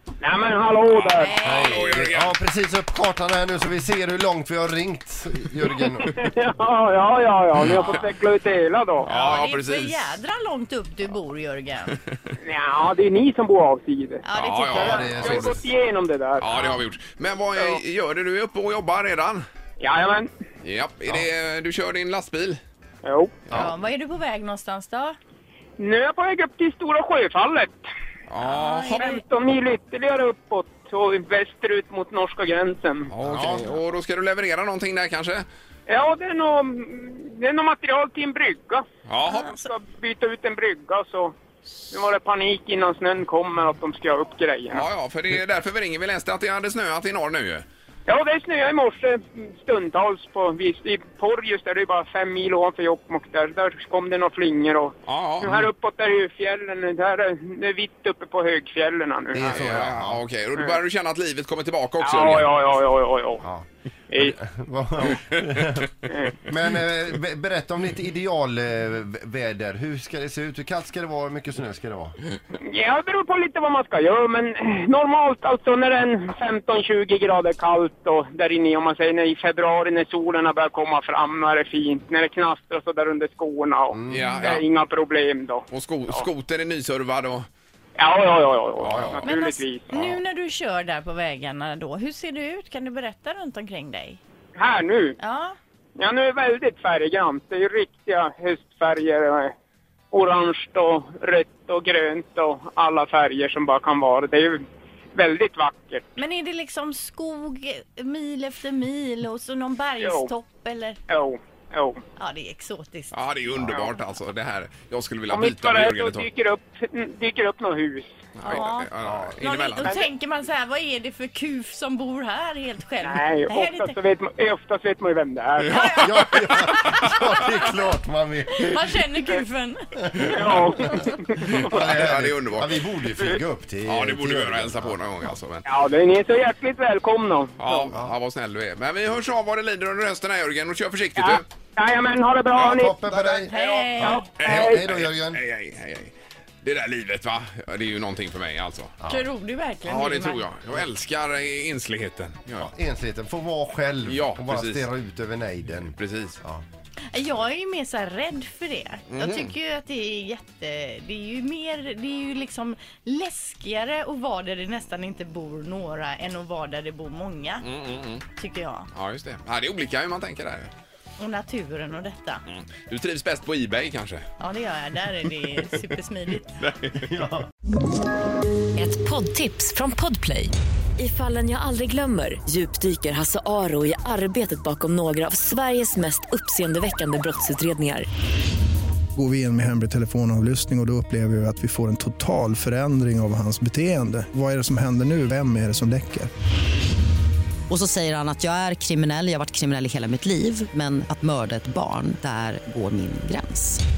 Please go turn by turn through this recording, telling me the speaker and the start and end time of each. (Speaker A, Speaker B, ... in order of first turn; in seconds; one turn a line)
Speaker A: 0.2-1.3
Speaker B: 1.0-2.3
Speaker C: 1.2-1.9
Speaker D: 1.4-6.1
Speaker A: 6.0-9.1
Speaker B: 7.6-8.1
Speaker B: 9.0-10.1
Speaker C: 9.1-11.9
Speaker A: 12.4-14.2
Speaker C: 14.2-15.3
Speaker B: 14.3-15.5
Speaker D: 14.7-15.6
Speaker A: 14.8-16.4
Speaker B: 16.4-19.4
Speaker C: 16.5-16.8
Speaker A: 19.8-20.3
Speaker B: 20.6-22.6
Speaker A: 23.0-23.4
Speaker C: 23.5-25.1
Speaker A: 25.8-27.9
Speaker B: 28.3-29.1
Speaker C: 28.4-29.2
Speaker A: 29.0-33.1
Speaker B: 33.1-35.5
Speaker D: 33.2-33.7
Speaker A: 35.9-38.8
Speaker B: 39.0-39.5
Speaker C: 39.2-39.7
Speaker A: 39.6-41.4
Speaker A: 41.9-44.8
Speaker B: 44.7-47.6
Speaker A: 48.1-59.6
Speaker B: 55.0-55.7
Speaker D: 59.3-60.2
Speaker B: 59.3-62.5
Speaker A: 62.0-63.4
Speaker A: 64.1-64.4
Speaker D: 64.2-72.2
Speaker B: 65.1-65.8
Speaker A: 66.1-66.3
Speaker A: 72.5-86.2
Speaker D: 83.9-84.3
Speaker B: 84.1-84.6
Speaker B: 85.7-87.5
Speaker A: 88.0-89.9
Speaker B: 88.8-89.3
Speaker C: 89.2-94.2
Speaker A: 94.5-95.2
Speaker C: 95.2-95.5
Speaker A: 96.0-99.5
Speaker A: 100.1-104.6
Speaker A: 105.1-106.1
Speaker C: 106.2-111.0
Speaker A: 110.0-110.3
Speaker A: 111.1-112.0
Speaker C: 112.2-113.8
Speaker B: 113.1-116.2
Speaker A: 115.3-118.6
Speaker B: 118.3-120.0
Speaker C: 118.4-124.0
Speaker D: 119.0-119.4
Speaker A: 123.0-125.8
Speaker B: 125.7-127.1
Speaker C: 125.7-127.6
Speaker D: 125.9-129.0
Speaker C: 128.5-131.1
Speaker D: 130.1-130.9
Speaker A: 130.2-131.7
Speaker B: 131.4-132.8
Speaker D: 131.6-135.0
Speaker B: 133.8-135.6
Speaker A: 135.7-137.9
Speaker B: 137.6-141.4
Speaker A: 141.2-142.9
Speaker B: 142.6-148.9
Speaker D: 142.7-145.4
Speaker C: 143.5-144.3
Speaker A: 143.5-144.8
Speaker D: 149.0-149.3
Speaker C: 149.1-150.5
Speaker B: 149.8-152.7
Speaker D: 152.6-156.6
Speaker B: 154.1-154.9
Speaker B: 155.9-156.4
Speaker C: 157.1-167.7
Speaker B: 159.1-159.5
Speaker B: 167.6-168.2
Speaker C: 168.3-168.9
Speaker B: 168.9-170.7
Speaker C: 171.2-172.4
Speaker B: 172.5-174.2
Speaker C: 174.4-176.6
Speaker B: 176.6-177.3
Speaker D: 176.9-177.4
Speaker E: 178.7-188.1
Speaker F: 189.1-196.3
Speaker G: 197.7-203.8